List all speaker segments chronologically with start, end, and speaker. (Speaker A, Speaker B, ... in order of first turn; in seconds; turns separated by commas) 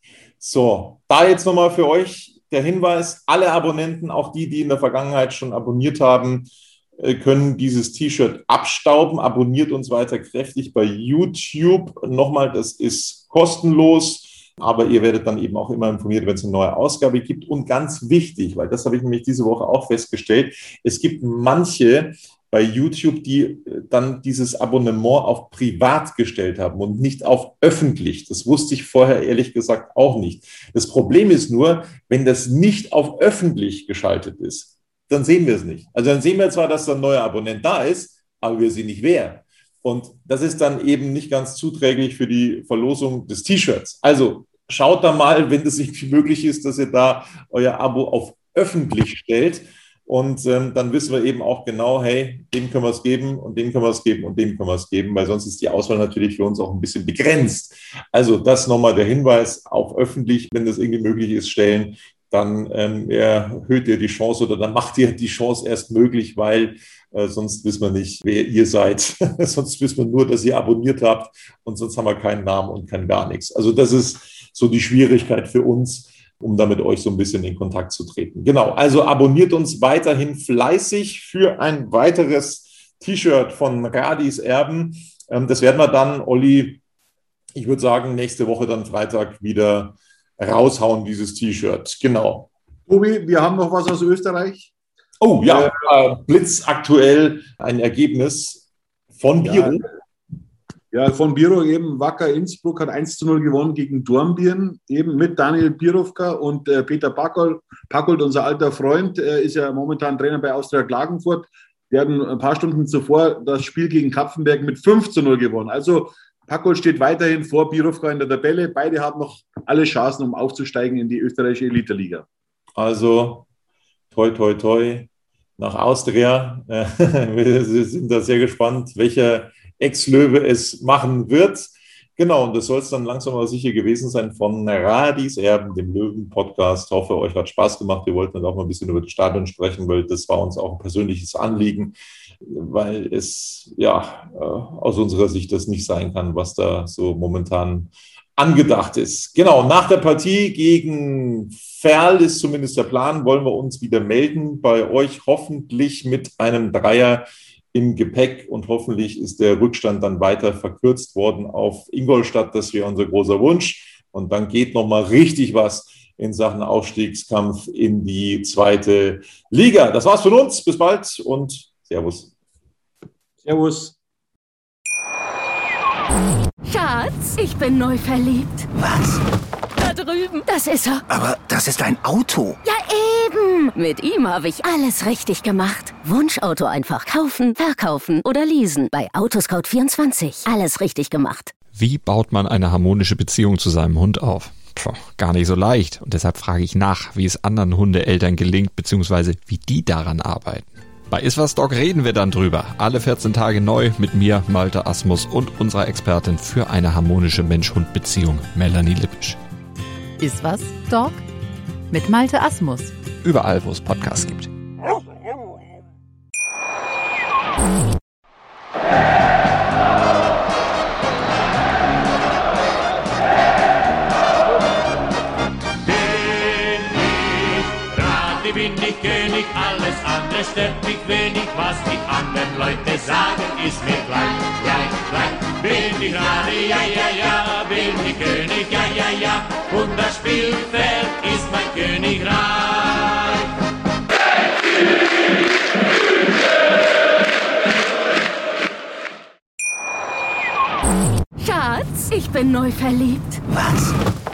Speaker A: 0.4-86.8, Speaker A: 87.5-92.5, Speaker B: 92.9-94.7, Speaker A: 95.2-98.6, Speaker B: 95.5-95.7, Speaker A: 99.2-99.9, Speaker B: 99.5-99.8, Speaker B: 100.9-122.2, Speaker A: 122.8-123.5, Speaker A: 124.1-172.3, Speaker B: 173.4-173.9, Speaker C: 176.7-178.7, Speaker D: 178.8-179.2, Speaker C: 179.8-181.0, Speaker D: 181.1-182.6, Speaker C: 182.6-191.6, Speaker E: 191.7-209.4, Speaker F: 210.2-211.2, Speaker F: 211.9-212.9, Speaker E: 213.2-214.5, Speaker G: 225.9-243.4, Speaker C: 251.4-253.4, Speaker D: 253.5-253.9